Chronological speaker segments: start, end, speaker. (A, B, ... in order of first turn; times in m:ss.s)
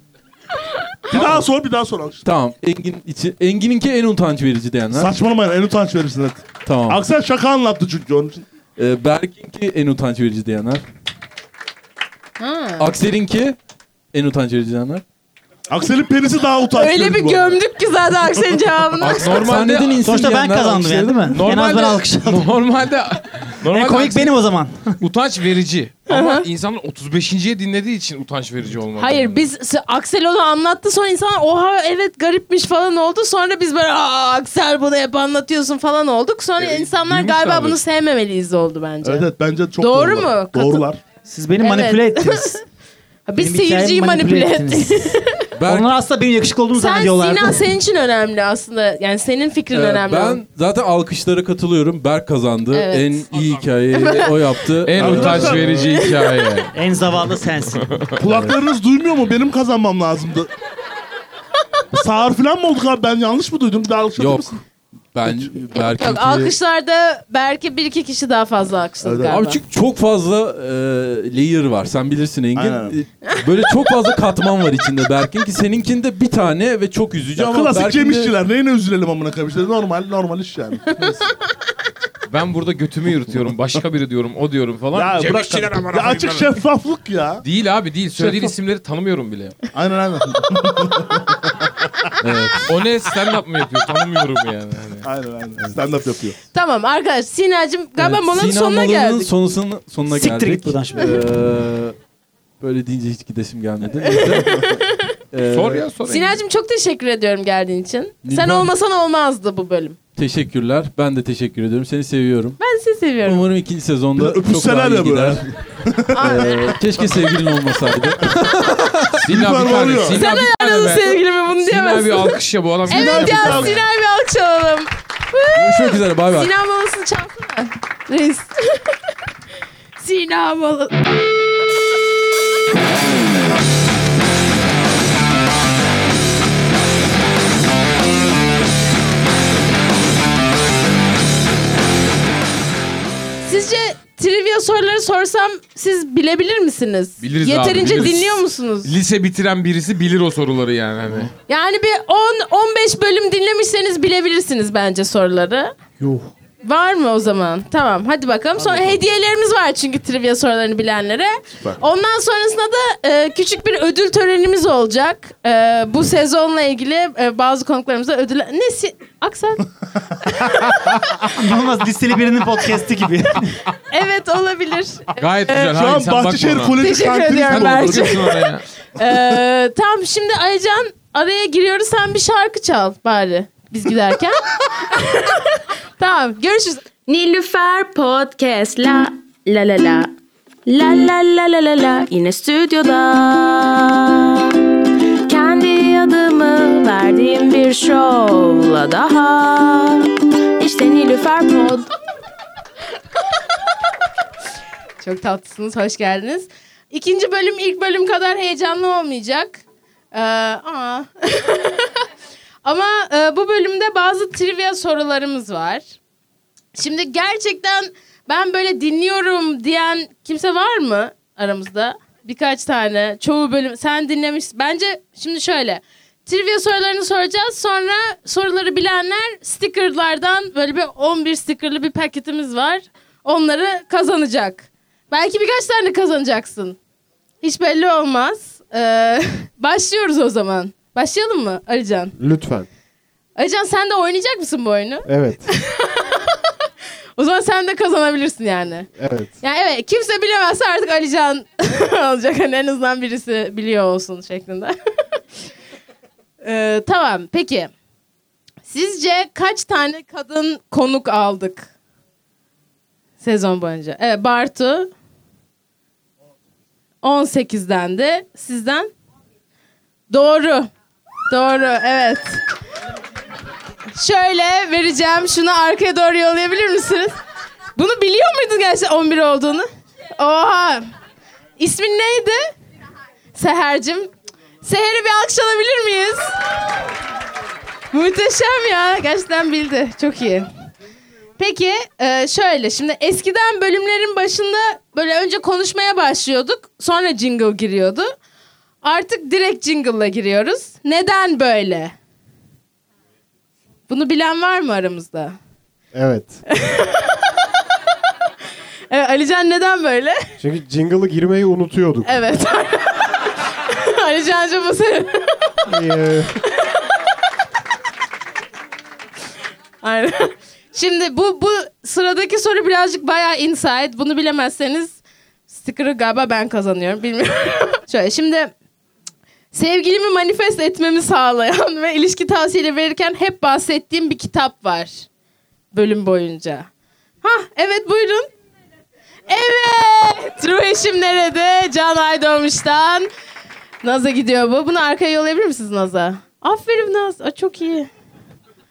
0:01.1-0:02.2 A
0:01.1-0:01.4 B
0:02.2-0:05.1 B
0:04.9-0:08.4 A
0:06.6-0:07.0 B
0:08.8-0:10.8 B
0:12.4-0:12.9 C
0:12.8-0:13.6 B
0:14.1-0:15.0 B
0:15.7-0:17.6 A
0:16.7-0:19.5 C
0:19.0-0:21.3 B
0:19.2-0:20.0 D
0:20.0-0:22.5 E
0:21.3-0:24.3 D
0:23.6-0:25.0 E
0:25.0-0:29.4 D
0:26.1-0:26.4 C
0:29.0-0:40.8 C
0:36.6-0:37.8 D
0:39.0-0:41.0 A
0:41.2-0:42.6 E
0:41.6-0:42.6 C
0:43.3-0:45.4 C
0:43.4-0:47.6 E
0:45.6-0:45.9 B
0:46.7-0:50.4 C
0:49.7-0:56.0 B
0:52.7-0:53.3 C
0:53.9-0:54.3 C
0:54.8-0:56.7 D
0:55.0-0:55.8 A
0:56.0-0:56.3 C
0:56.7-0:58.0 E
0:57.8-0:58.1 D
0:58.2-1:00.5 A
1:01.9-1:04.6 A
1:04.2-1:04.5 B
1:05.1-1:06.5 B
1:05.2-1:05.5 A
1:05.7-1:09.6 C
1:09.0-1:09.4 A
1:09.3-1:18.3 B
1:12.5-1:12.9 A
1:17.4-1:20.9 A
1:22.3-1:26.5 D
1:24.9-1:27.4 A
1:27.4-1:29.6 D
1:28.2-1:28.5 A
1:29.7-1:31.8 A
1:32.2-1:32.7 B
1:32.6-1:35.1 D
1:35.0-1:36.4 A
1:36.5-1:39.3 C
1:38.0-1:42.0 B
1:40.1-1:41.2 E
1:42.6-1:44.8 B
1:44.0-1:45.1 C
1:45.3-1:45.9 B
1:45.4-1:46.4 D
1:46.0-1:50.0 C
1:48.2-1:48.7 B
1:50.2-1:52.6 B
1:52.6-1:53.5 C
1:53.2-1:55.4 B
1:54.2-1:56.4 A
1:56.1-1:56.7 C
1:56.2-1:59.2 B
1:59.2-2:03.8 D
1:59.2-2:00.2 A
2:00.1-2:09.0 C
2:02.9-2:03.8 A
2:05.5-2:06.5 B
2:10.0-2:10.9 C
2:23.4-2:28.9 C
2:27.2-2:31.3 D
2:31.5-2:35.7 C
2:36.6-2:49.7 C
2:50.2-2:50.9 C
2:51.2-2:53.6 E
2:53.9-2:55.7 C
2:55.2-2:56.8 D
2:55.7-2:58.4 A
2:56.8-3:06.8 C
2:57.5-2:58.6 D
3:07.1-3:10.1 F
3:10.7-3:14.6 F
3:15.3-3:21.9 F
3:25.0-3:32.0 C
3:32.6-3:35.9 C
3:36.8-3:56.8 C
3:57.4-4:02.1 C
4:02.2-4:02.7 G
4:03.4-4:06.4 C
4:05.0-4:05.5 G
4:07.2-4:08.9 C
4:09.0-4:09.3 G
4:09.4-4:14.7 C
4:16.4-4:17.7 C
4:18.6-4:21.7 C
4:23.2-4:24.9 C
4:27.0-4:28.9 C
4:30.1-4:30.7 C
4:31.3-4:32.4 C
4:33.9-4:37.2 C
4:37.8-4:40.8 C
4:41.6-4:42.5 C
4:43.3-4:44.1 C
4:44.6-4:46.4 C
4:47.9-4:50.5 C
4:51.4-4:58.1 C
4:58.8-5:01.9 C
5:03.9-5:05.4 C
5:05.9-5:06.4 G
5:06.5-5:07.2 C
5:08.9-5:10.2 C
5:10.4-5:12.1 G
5:12.0-5:15.6 C
5:15.7-5:16.4 G
5:19.8-5:28.5 C
5:29.5-5:35.1 C
5:35.7-5:36.7 C
5:37.2-5:38.3 C
5:39.3-5:43.1 C
5:43.8-5:47.9 C